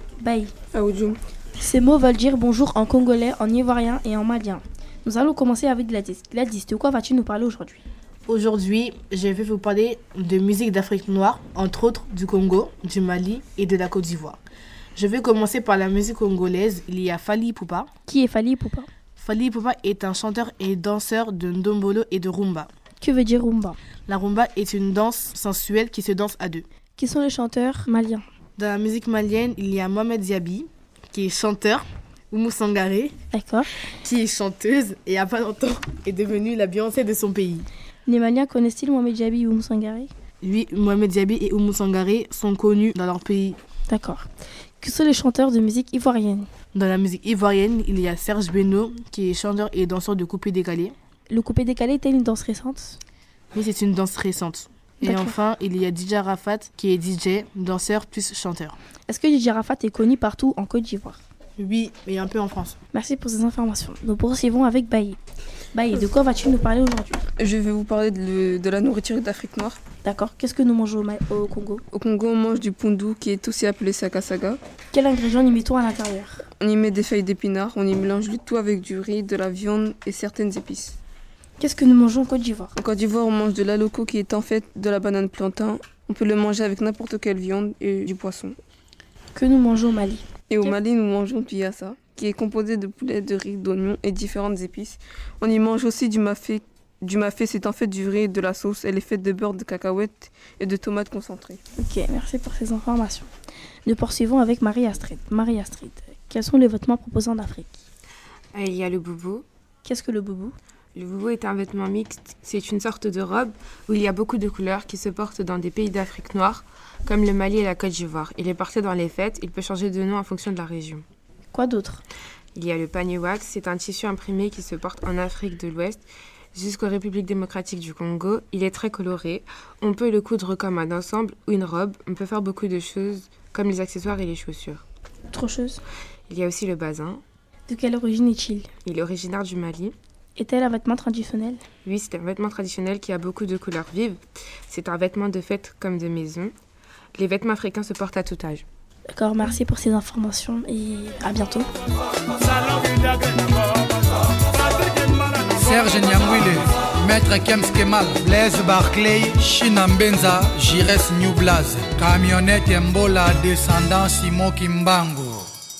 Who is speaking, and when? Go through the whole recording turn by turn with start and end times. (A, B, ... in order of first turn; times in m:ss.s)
0:00.2-0:00.5 A
0:00.7-0:01.2 B
0:01.6-0:07.8 A
0:08.3-0:14.4 C
0:15.0-0:17.9 C
0:18.1-0:18.9 A
0:19.2-0:22.7 C
0:23.0-0:23.8 A
0:24.1-0:26.6 C
0:27.0-0:28.2 A
0:28.6-0:33.1 C
0:33.3-0:33.7 A
0:34.0-0:37.7 C
0:38.0-0:40.1 A
0:40.4-0:43.6 C
0:43.9-0:44.3 A
0:44.8-0:46.5 A
0:46.7-0:50.9 C
0:51.3-0:53.0 A
0:53.5-0:58.8 C
0:55.0-0:55.3 A
0:59.1-1:01.2 A
1:01.6-1:02.8 C
1:02.9-1:05.2 A
1:05.7-1:07.2 A
1:07.4-1:09.8 B
1:10.0-1:11.8 A
1:11.9-1:14.6 B
1:14.9-1:16.4 A
1:16.6-1:21.0 B
1:21.6-1:22.7 A
1:22.8-1:28.6 B
1:29.3-1:30.7 A
1:30.5-1:41.6 B
1:41.8-1:43.3 A
1:43.8-1:47.8 A
1:48.5-1:49.4 D
1:49.8-1:50.6 A
1:50.9-2:01.0 D
2:01.5-2:02.0 A
2:02.5-2:14.8 D
2:15.3-2:15.8 A
2:16.3-2:17.2 D
2:17.7-2:18.7 A
2:18.8-2:19.9 D
2:20.4-2:21.6 A
2:21.8-2:26.5 D
2:27.2-2:28.6 D
2:29.1-2:31.7 A
2:35.3-2:45.5 E